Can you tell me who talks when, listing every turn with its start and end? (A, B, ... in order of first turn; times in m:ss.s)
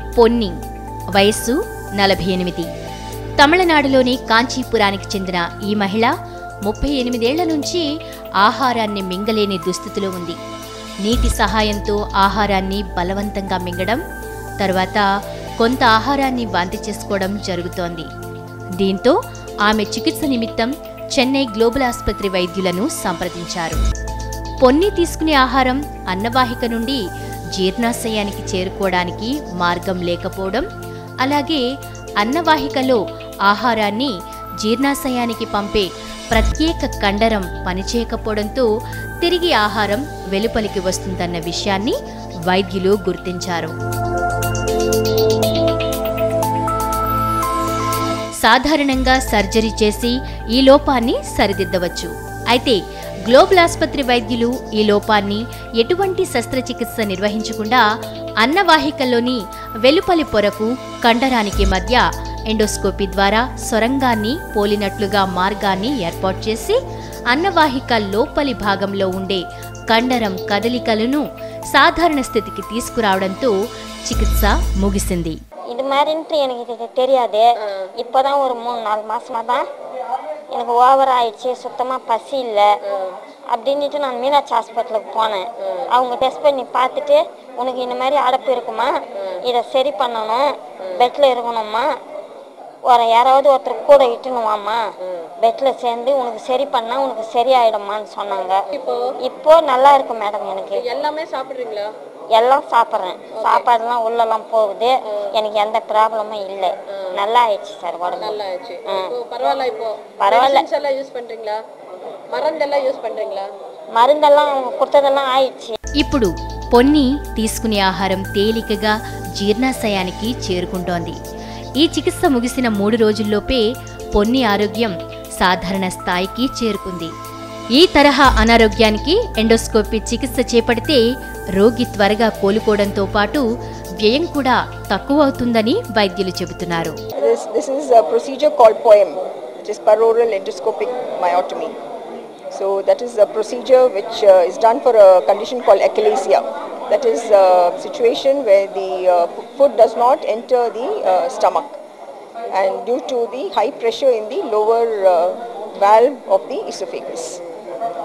0:00.2-0:00.6 A
0:01.1-0:02.7 A
0:03.4-0:06.1 A
0:06.6-0:07.9 A
0:08.4-0:10.4 A
0:11.0-0:14.0 A
0:14.6-0:15.0 A
0:15.6-0:18.1 A
0:18.8-0:23.8 A
0:24.6-0:27.0 A
0:27.5-0:30.7 A
0:31.2-0:31.6 A
0:32.2-0:38.7 A
0:39.2-0:43.7 A
0:48.4-0:57.8 A
0:58.4-1:06.8 A
1:07.3-1:13.5 A
1:14.0-1:15.4 A
1:15.7-1:19.7 B
1:17.6-1:17.9 C
1:20.5-1:22.7 B
1:22.9-1:23.2 C
1:23.5-1:31.9 B
1:25.6-1:25.9 C
1:30.8-1:31.1 C
1:32.8-1:34.8 B
1:35.4-1:38.7 B
1:38.7-1:39.2 C
1:39.2-1:40.9 B
1:40.7-1:41.9 C
1:42.3-1:49.2 B
1:43.3-1:43.7 C
1:48.1-1:51.6 C
1:50.2-1:50.7 B
1:52.3-1:53.5 C
1:54.0-1:55.8 B
1:56.0-2:01.2 A
2:01.8-2:07.1 A
2:07.7-2:11.0 A
2:11.6-2:13.4 A
2:14.0-2:17.0 A
2:17.2-2:21.8 D
2:22.5-2:31.8 D
2:32.5-2:37.4 D